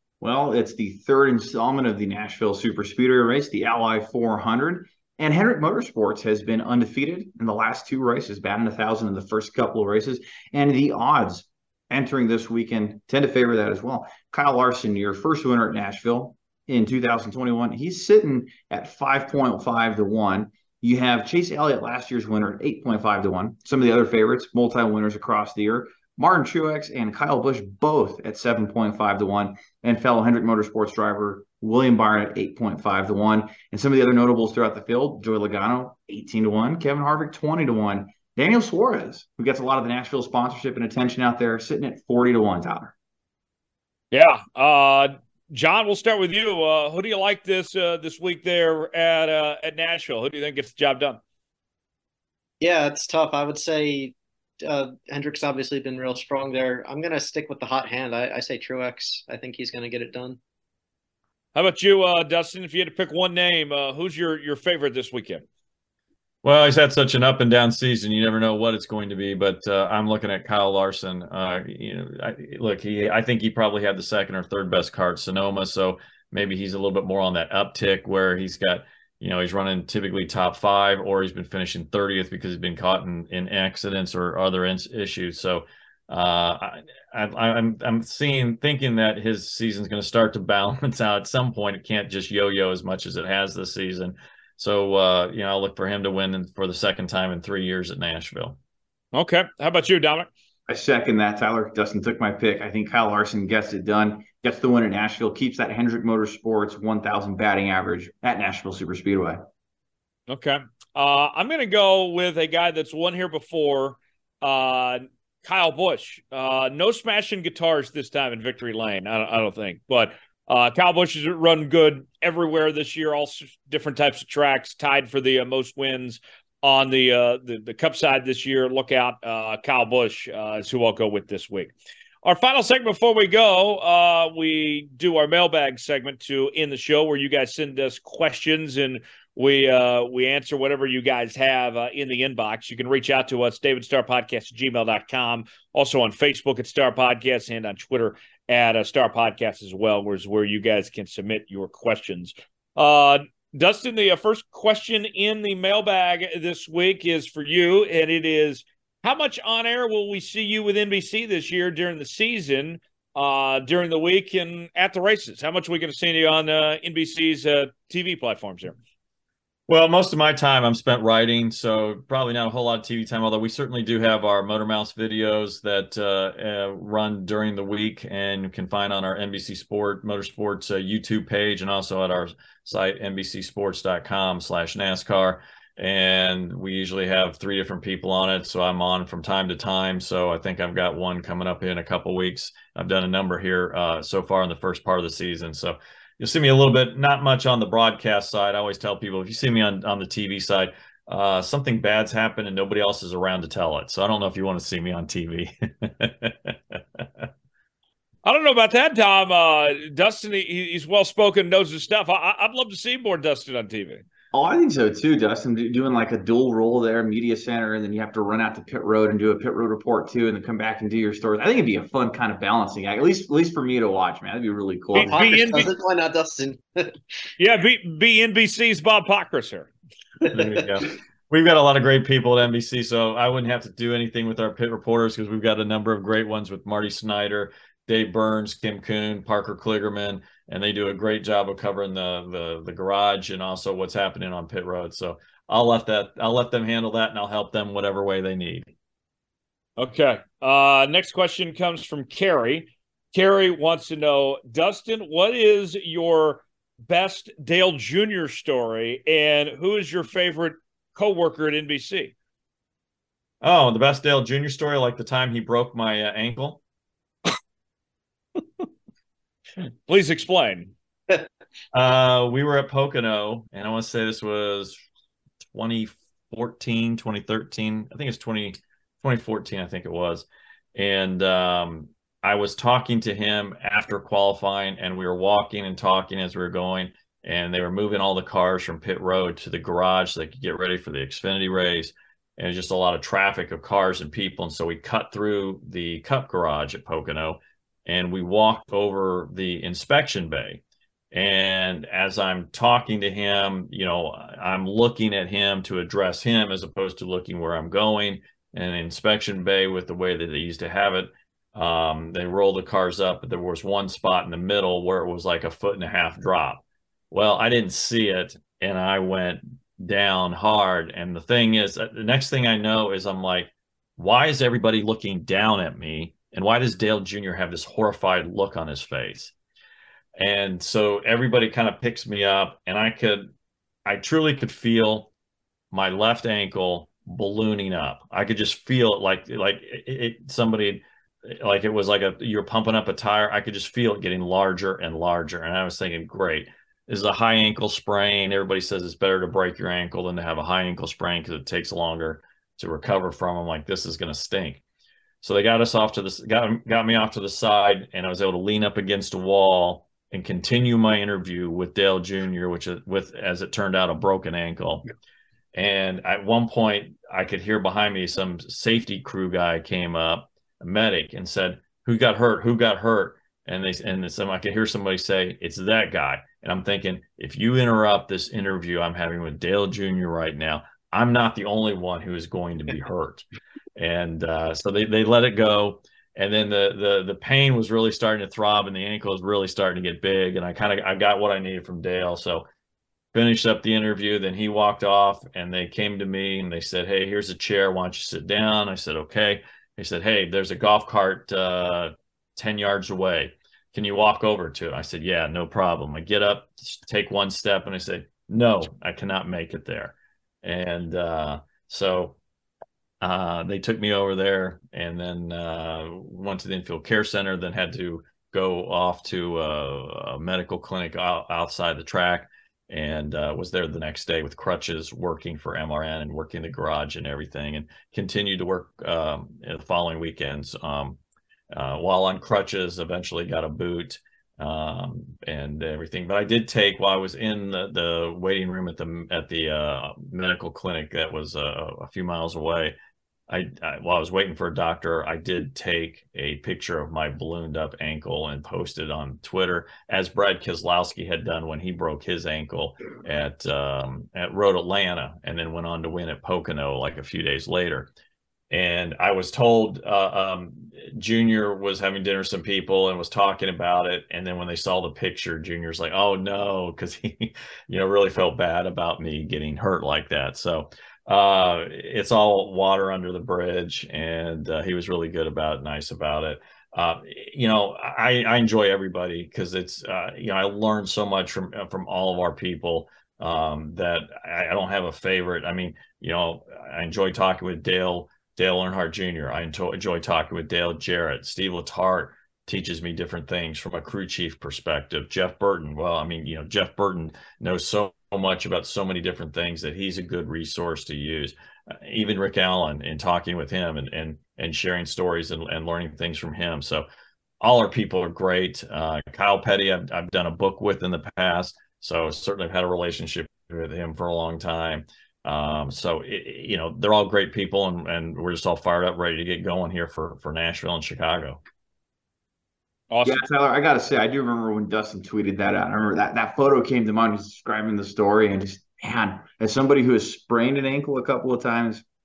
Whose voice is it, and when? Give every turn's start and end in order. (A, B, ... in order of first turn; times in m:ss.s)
0:00.2-0:42.9 A
0:44.1-0:51.2 B
0:52.6-1:00.4 C
1:01.6-1:05.4 B
1:06.4-1:38.6 D
1:39.1-1:40.3 B
1:40.7-1:49.4 A
1:50.3-2:48.8 B
2:49.7-3:27.3 D
3:28.2-3:34.0 B
3:34.3-3:45.2 A
3:44.9-3:45.7 B
3:45.0-3:47.0 C
3:47.4-3:49.7 B
3:50.3-4:08.7 D
4:09.8-4:22.1 B
4:23.4-4:26.6 D
4:29.9-4:30.7 B
4:31.7-4:34.8 D
4:35.5-5:29.3 D
5:30.2-5:33.3 D
5:33.9-5:35.1 D
5:35.7-5:54.6 D
5:55.2-6:04.8 D
6:05.5-6:32.4 D
6:33.1-6:52.2 D
6:53.0-7:11.0 D
7:11.5-7:22.8 D
7:23.3-7:37.9 D
7:38.5-8:26.9 D
8:27.4-8:41.4 D
8:42.9-8:43.3 B
8:43.0-8:51.8 A